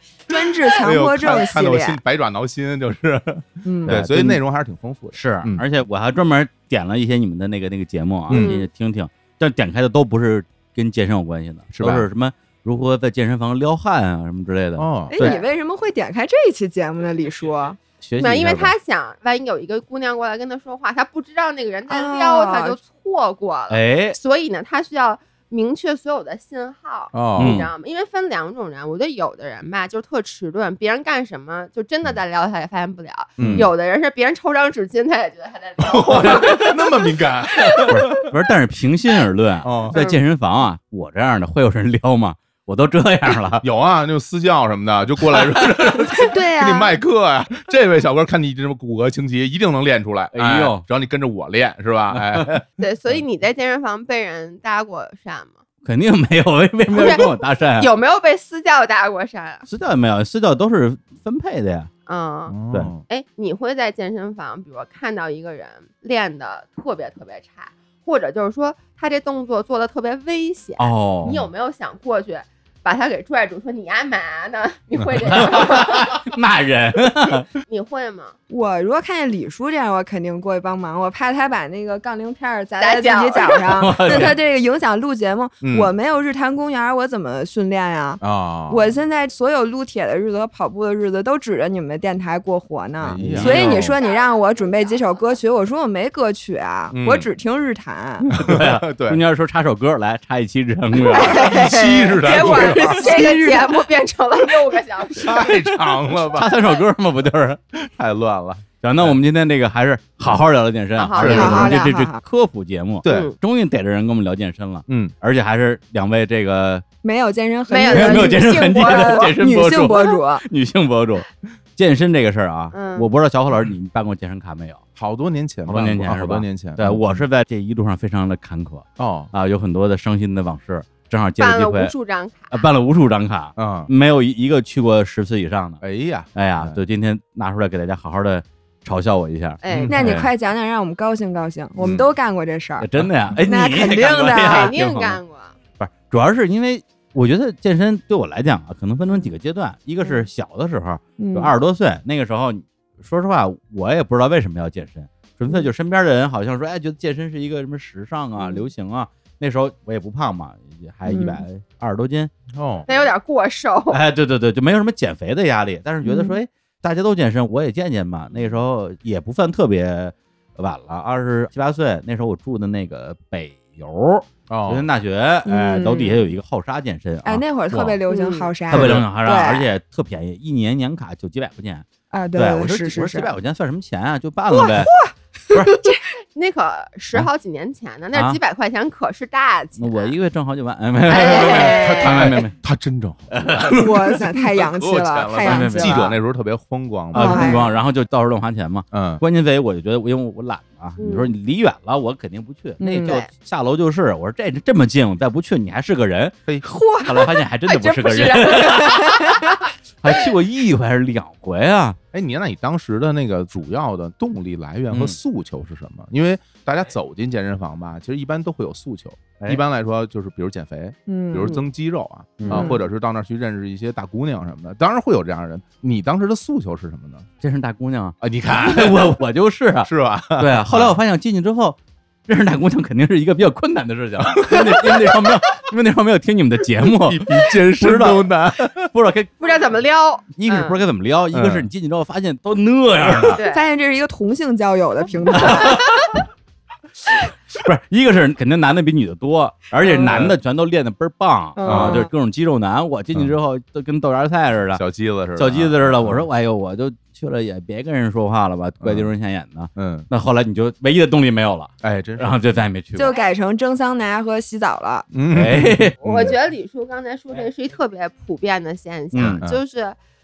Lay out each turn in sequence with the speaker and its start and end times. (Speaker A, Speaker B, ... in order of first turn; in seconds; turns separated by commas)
Speaker A: 0.3-2.0, Speaker B: 0.3-5.6, Speaker A: 3.6-4.0, Speaker C: 3.9-4.4, Speaker C: 5.1-15.4, Speaker B: 8.3-8.5, Speaker D: 8.3-8.7, Speaker B: 11.7-12.1, Speaker B: 14.8-15.2, Speaker A: 15.1-17.8, Speaker C: 18.0-18.7, Speaker D: 18.2-37.9, Speaker A: 21.9-22.8, Speaker C: 23.7-24.2, Speaker B: 27.1-27.6, Speaker C: 27.4-27.7, Speaker B: 33.4-33.7, Speaker C: 33.4-33.7, Speaker B: 35.8-38.2, Speaker C: 36.1-36.6, Speaker C: 37.9-43.6, Speaker B: 39.6-40.0, Speaker D: 39.9-40.2, Speaker B: 43.6-52.6, Speaker A: 46.0-47.0, Speaker C: 50.3-50.8, Speaker C: 52.1-52.6, Speaker D: 52.8-55.6, Speaker C: 55.8-57.9, Speaker D: 56.9-59.7, Speaker C: 59.7-61.9, Speaker D: 62.1-76.3, Speaker B: 62.5-63.0, Speaker C: 70.8-71.4, Speaker C: 75.3-77.4, Speaker D: 77.7-78.3, Speaker A: 78.5-98.3, Speaker D: 82.8-83.8, Speaker C: 83.7-84.4, Speaker B: 85.6-85.9, Speaker B: 88.2-88.9, Speaker B: 93.0-93.9, Speaker C: 93.2-93.9, Speaker B: 96.9-97.3, Speaker B: 98.3-99.2, Speaker C: 98.4-101.4, Speaker A: 101.1-103.9, Speaker D: 101.1-101.6, Speaker B: 101.3-103.1, Speaker D: 102.2-105.8, Speaker B: 105.2-106.5, Speaker C: 106.3-107.6, Speaker B: 107.7-109.2, Speaker C: 108.8-116.8, Speaker D: 111.0-111.8, Speaker B: 111.2-111.7, Speaker A: 111.2-112.2, Speaker B: 113.0-113.3, Speaker D: 113.0-113.3, Speaker B: 114.9-115.1, Speaker A: 117.0-120.4, Speaker D: 117.7-119.3, Speaker C: 117.9-124.8, Speaker D: 122.7-123.1, Speaker B: 125.0-127.2, Speaker C: 125.7-131.9, Speaker B: 129.0-129.3, Speaker D: 131.4-132.6, Speaker C: 132.5-135.8, Speaker B: 133.6-133.9, Speaker B: 135.8-136.8, Speaker C: 136.3-140.3, Speaker D: 139.6-140.0, Speaker B: 139.7-140.2, Speaker A: 139.9-144.7, Speaker B: 141.8-142.1, Speaker C: 142.8-145.2, Speaker D: 144.4-145.5, Speaker C: 145.8-162.3, Speaker A: 151.2-151.5, Speaker A: 161.1-161.4, Speaker B: 162.5-162.9, Speaker D: 162.9-164.0, Speaker C: 163.9-178.0, Speaker A: 166.0-166.3, Speaker B: 174.5-174.9, Speaker A: 175.4-176.2, Speaker A: 177.2-179.7, Speaker D: 178.1-178.5, Speaker C: 178.7-184.9, Speaker B: 178.7-179.1, Speaker A: 182.1-183.3, Speaker A: 184.5-186.0, Speaker D: 185.8-190.1, Speaker C: 188.1-188.4, Speaker C: 189.8-192.5, Speaker D: 191.1-192.3, Speaker B: 191.2-197.6, Speaker C: 193.3-193.7, Speaker A: 193.7-196.1, Speaker C: 195.4-196.1, Speaker C: 197.1-206.4, Speaker A: 197.1-197.7, Speaker B: 198.9-199.2, Speaker D: 201.0-201.3, Speaker A: 202.8-203.2, Speaker A: 206.6-209.6, Speaker C: 207.0-209.4, Speaker D: 207.9-208.7, Speaker C: 210.0-212.0, Speaker B: 212.1-227.3, Speaker C: 214.9-215.2, Speaker A: 221.1-221.6, Speaker C: 222.4-222.8, Speaker A: 222.5-222.8, Speaker C: 227.4-239.3, Speaker B: 228.2-229.2, Speaker B: 229.8-231.0, Speaker B: 234.2-235.2, Speaker B: 236.8-238.9, Speaker D: 239.4-240.8, Speaker C: 240.4-243.4, Speaker B: 241.3-241.7, Speaker B: 243.0-243.3, Speaker D: 243.2-243.6, Speaker A: 243.5-245.8, Speaker C: 245.3-245.9, Speaker C: 247.6-254.8, Speaker B: 250.0-250.3, Speaker A: 251.6-252.1, Speaker B: 251.7-252.1, Speaker B: 254.7-256.3, Speaker C: 255.3-263.1, Speaker B: 258.8-259.1, Speaker B: 259.7-260.1, Speaker B: 261.8-262.4, Speaker A: 262.9-265.1, Speaker B: 265.1-266.3, Speaker C: 265.3-265.9, Speaker D: 266.0-269.9, Speaker C: 269.1-269.4, Speaker B: 269.2-269.6